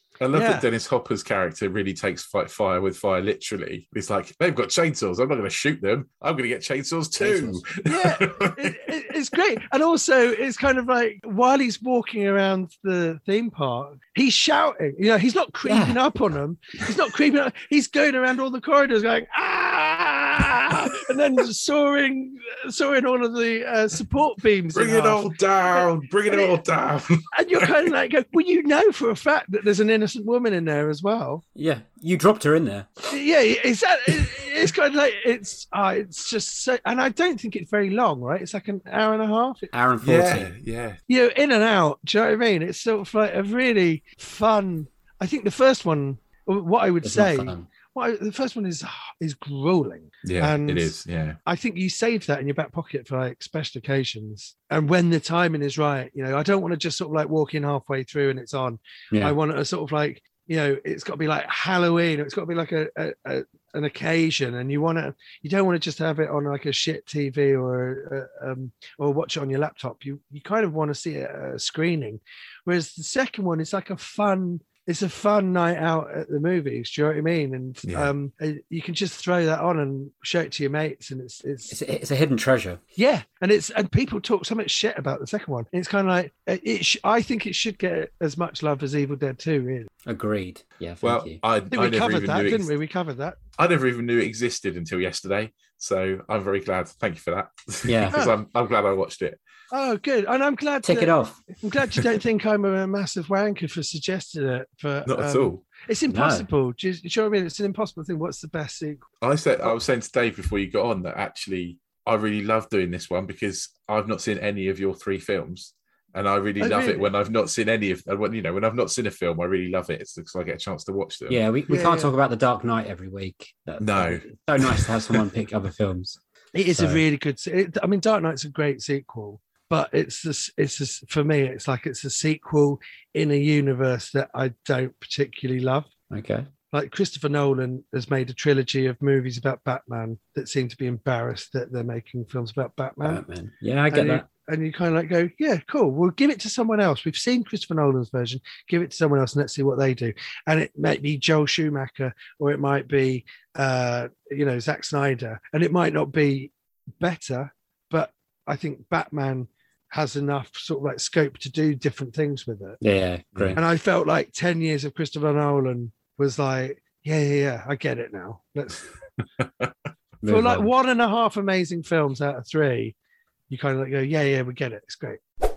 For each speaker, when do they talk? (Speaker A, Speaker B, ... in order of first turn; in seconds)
Speaker A: 0.2-8.7, 24.7-27.7, 40.0-41.0, 50.2-51.4, 91.0-92.7, 93.6-99.4, 105.1-105.7, 109.2-121.4, 123.8-124.8
Speaker B: 0.3-0.7, 7.8-26.6, 27.3-31.4, 33.1-39.7, 41.1-50.9, 51.5-81.7, 83.0-89.9, 91.7-93.4, 98.1-98.4, 99.7-109.0, 116.6-117.1, 121.7-122.1, 126.5-135.9, 136.7-143.2, 143.9-162.8, 163.6-168.8, 170.3-172.9, 173.5-175.2
Speaker C: 7.2-7.6, 15.7-16.0, 31.6-32.9, 39.7-40.5, 47.0-47.7, 81.7-82.8, 90.1-91.4, 97.9-98.2, 100.8-101.4, 106.1-106.5, 121.3-126.2, 126.7-127.0, 136.1-136.5, 143.0-144.2, 162.8-163.6, 170.2-170.7